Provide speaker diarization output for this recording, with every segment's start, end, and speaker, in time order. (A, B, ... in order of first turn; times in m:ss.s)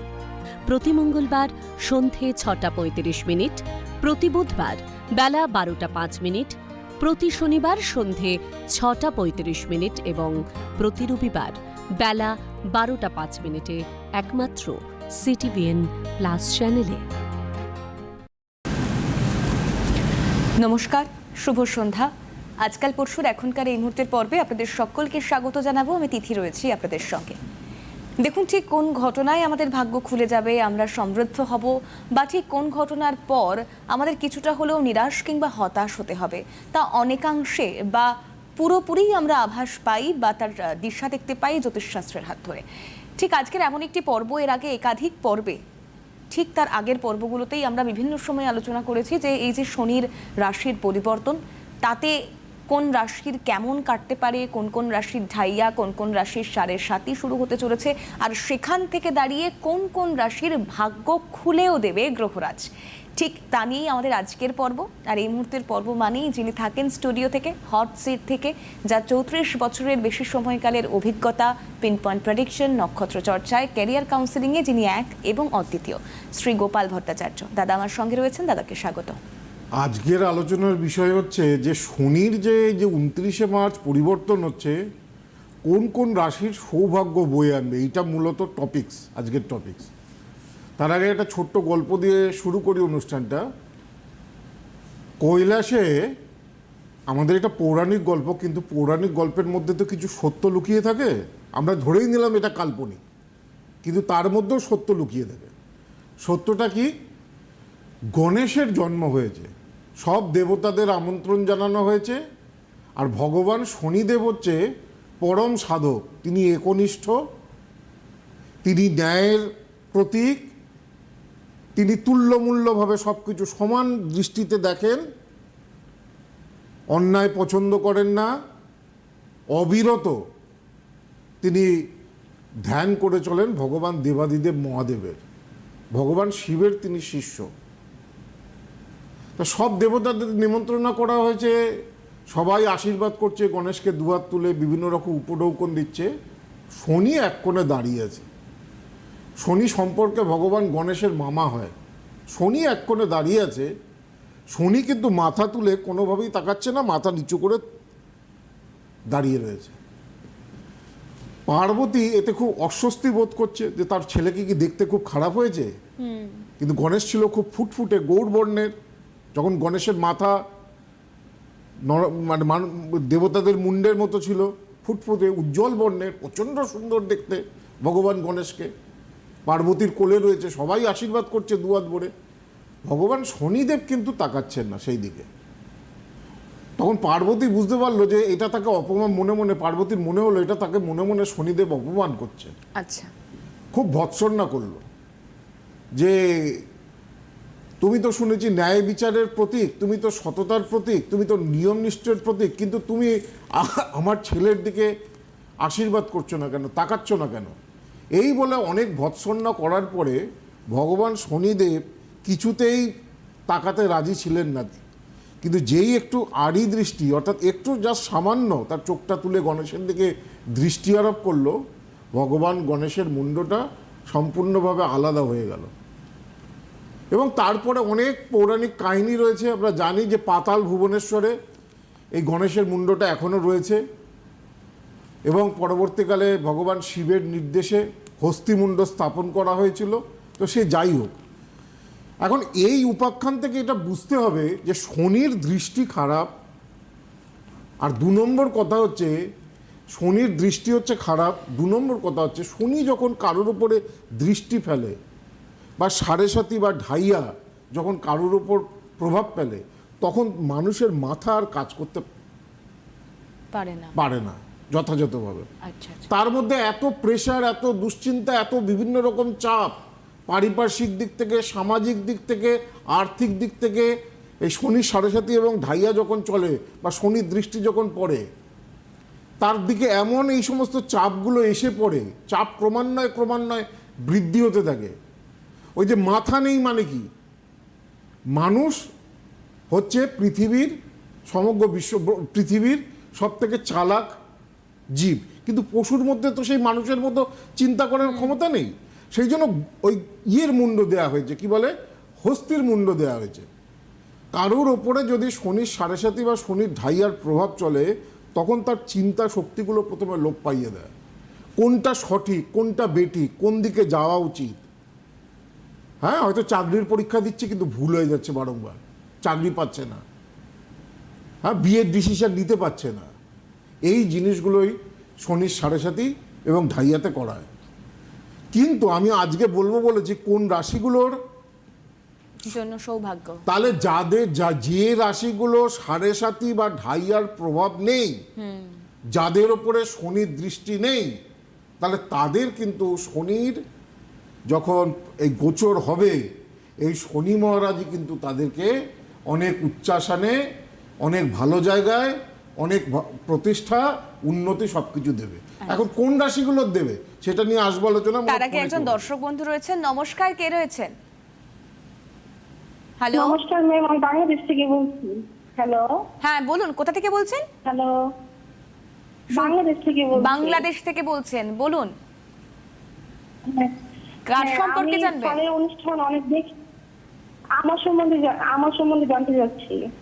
0:00.7-0:17.0 A
0:20.6-0:22.1 B
0:22.6-0:27.4 B
0:28.2-0:42.6 B
0:43.2-0:45.6 B
0:46.3-0:52.2 B
0:52.7-1:19.2 B
1:19.8-1:24.8 C
1:25.7-1:29.9 C
1:30.8-1:33.4 C
1:35.2-1:36.0 C
1:37.1-1:43.0 C
1:43.8-1:45.5 C
1:46.2-1:46.9 C
1:48.1-1:52.2 C
1:53.0-1:54.6 C
1:55.2-1:57.2 C
1:58.6-2:00.5 C
2:01.8-2:05.0 C
2:06.9-2:08.3 C
2:09.5-2:10.2 C
2:11.4-2:11.8 C
2:12.6-2:15.2 C
2:15.9-2:17.5 C
2:19.4-2:21.6 C
2:22.3-2:26.1 C
2:26.8-2:28.3 C
2:29.4-2:31.7 C
2:32.3-2:33.7 C
2:34.5-2:37.6 C
2:39.1-2:39.8 C
2:41.5-2:45.7 C
2:46.0-2:46.4 B
2:46.6-2:48.7 C
2:49.4-2:50.4 C
2:51.9-2:58.7 C
2:59.5-3:02.1 C
3:02.9-3:05.3 C
3:06.8-3:12.5 C
3:12.8-3:13.1 B
3:13.7-3:14.8 C
3:16.0-3:16.6 C
3:17.8-3:24.9 C
3:25.6-3:27.5 C
3:28.2-3:30.2 C
3:30.7-3:32.9 C
3:33.5-3:34.8 C
3:35.4-3:41.6 C
3:42.2-3:45.7 C
3:47.1-3:51.4 C
3:52.2-3:53.8 C
3:55.3-4:01.2 C
4:02.2-4:06.3 C
4:07.8-4:09.2 C
4:09.9-4:15.0 C
4:15.8-4:22.1 C
4:23.5-4:23.9 B
4:24.0-4:25.5 C
4:25.6-4:26.1 B
4:26.1-4:29.7 C
4:30.3-4:33.9 C
4:34.4-4:38.2 C
4:39.4-4:44.9 C
4:45.8-4:47.1 C
4:48.4-4:48.8 C
4:49.7-4:50.7 C
4:51.3-4:54.1 C
4:55.0-5:03.5 C
5:04.3-5:10.9 C
5:11.6-5:14.6 C
5:16.0-5:20.0 C
5:21.4-5:23.1 C
5:23.9-5:27.5 C
5:28.5-5:31.2 C
5:32.4-5:33.4 B
5:33.5-5:38.2 C
5:38.4-5:38.8 B
5:39.1-5:41.2 C
5:41.8-5:43.6 C
5:44.5-5:46.2 C
5:46.8-5:48.7 C
5:49.3-5:50.4 C
5:51.0-5:59.0 C
5:58.3-6:00.9 B
6:03.0-6:03.4 B
6:03.1-6:05.9 D
6:06.2-6:07.4 B
6:07.6-6:07.9 D
6:09.3-6:10.6 D
6:10.2-6:11.9 B
6:13.5-6:13.8 D
6:14.3-6:15.4 B
6:14.4-6:16.5 D
6:17.6-6:19.8 D